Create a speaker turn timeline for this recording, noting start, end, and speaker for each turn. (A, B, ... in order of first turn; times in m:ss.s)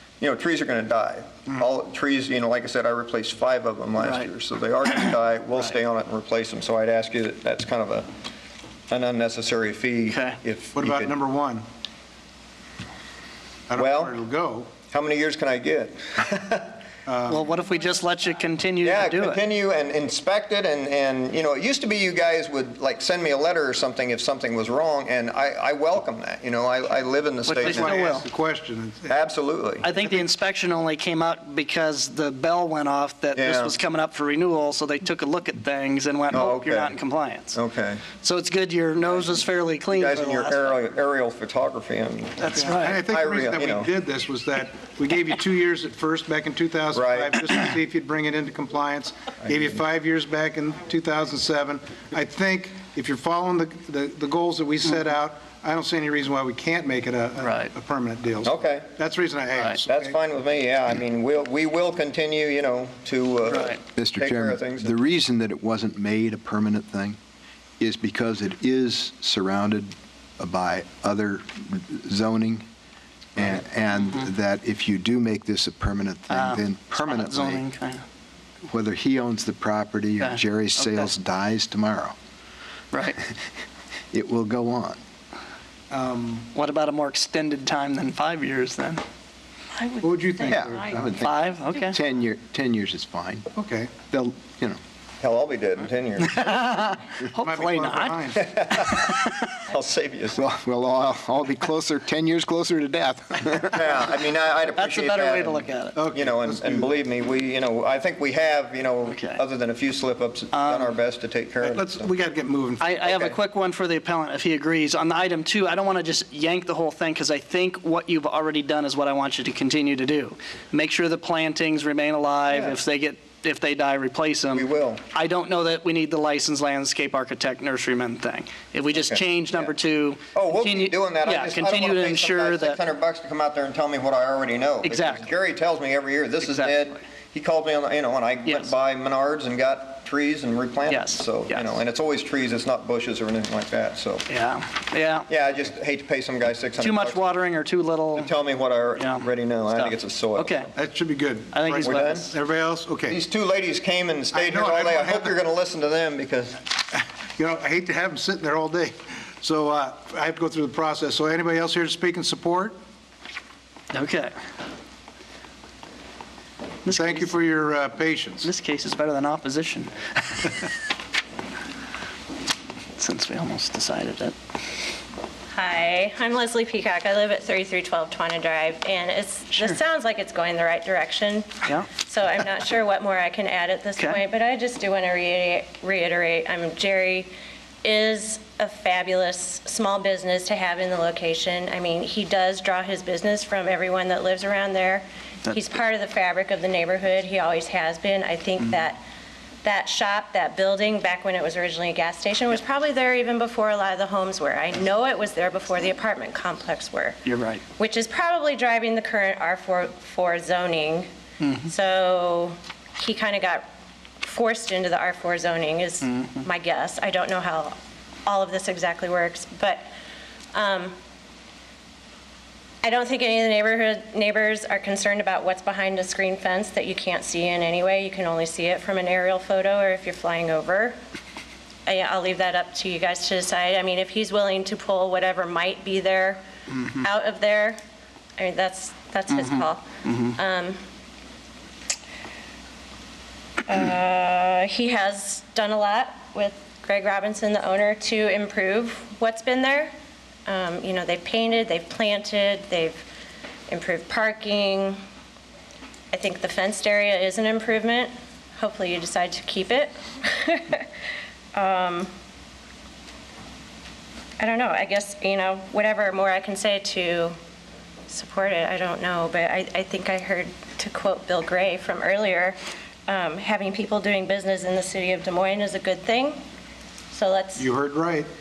0:00.2-0:08.1 A
0:04.0-0:04.3 B
0:08.9-0:11.1 A
0:10.1-0:10.4 B
0:10.7-0:11.6 C
0:13.7-0:14.7 C
0:13.8-0:14.1 A
0:14.9-0:16.8 A
0:17.0-0:17.5 C
0:17.3-0:19.4 B
0:18.8-0:28.0 A
0:27.4-0:28.2 B
0:27.5-0:29.2 C
0:29.1-0:29.9 A
0:29.8-0:37.6 B
0:30.0-0:30.2 C
0:33.4-0:33.8 A
0:36.3-0:37.0 A
0:37.5-0:38.0 A
0:38.2-0:40.7 B
0:39.0-0:43.9 A
0:42.4-0:43.0 B
0:42.5-1:00.2 C
0:46.9-0:47.4 A
0:49.4-0:49.7 A
0:57.4-0:57.7 B
0:58.4-0:58.9 A
0:59.5-0:59.8 B
0:59.8-1:05.0 A
1:03.5-1:03.8 B
1:04.0-1:07.2 D
1:07.8-1:12.6 D
1:13.4-1:17.6 D
1:16.3-1:18.0 B
1:18.7-1:22.2 D
1:20.2-1:21.1 B
1:22.9-1:23.2 B
1:24.1-1:25.0 D
1:25.9-1:26.5 C
1:26.5-1:29.0 B
1:29.8-1:32.0 B
1:30.0-1:31.0 C
1:30.9-1:33.4 D
1:33.5-1:34.0 C
1:34.1-1:34.8 D
1:35.2-1:36.4 A
1:36.2-1:39.5 B
1:37.4-1:38.5 C
1:38.4-1:40.4 A
1:40.4-1:44.1 D
1:43.7-1:52.1 A
1:44.7-1:46.0 B
1:45.9-1:46.9 C
1:49.1-1:49.4 B
1:50.5-1:50.9 B
1:51.6-1:53.2 C
1:52.8-2:12.8 B
2:02.5-2:02.8 A
2:04.5-2:05.0 A
2:08.9-2:09.7 A
2:10.3-2:24.2 A
2:14.8-2:15.3 B
2:16.4-2:16.8 B
2:18.4-2:18.7 B
2:20.9-2:21.7 B
2:24.3-2:25.3 B
2:25.3-2:27.2 A
2:26.8-2:28.3 B
2:28.2-2:30.7 A
2:29.0-2:30.7 B
2:30.7-2:33.2 C
2:31.5-2:32.3 B
2:31.8-2:32.2 A
2:33.1-2:36.6 A
2:34.3-2:35.4 C
2:36.9-2:42.8 C
2:43.9-2:44.3 B
2:46.8-2:47.3 B
2:46.8-2:48.5 C
2:48.4-2:50.5 B
2:53.0-2:54.4 B
2:55.5-3:07.3 E
3:07.8-3:19.0 E
3:19.6-3:31.1 E
3:27.2-3:27.6 B
3:31.4-3:31.7 B
3:31.6-3:33.6 E
3:34.2-3:39.8 E
3:36.0-3:36.4 B
3:40.5-3:40.9 E
3:42.8-3:51.0 E
3:51.8-3:57.8 E
3:58.4-4:00.8 E
3:59.3-4:00.3 B
4:03.6-4:09.9 E
4:10.5-4:13.0 E
4:13.7-4:15.0 E
4:16.1-4:20.9 E
4:21.5-4:22.1 E
4:24.4-4:27.3 E
4:28.1-4:36.4 E
4:37.1-4:37.7 E
4:37.6-4:38.3 C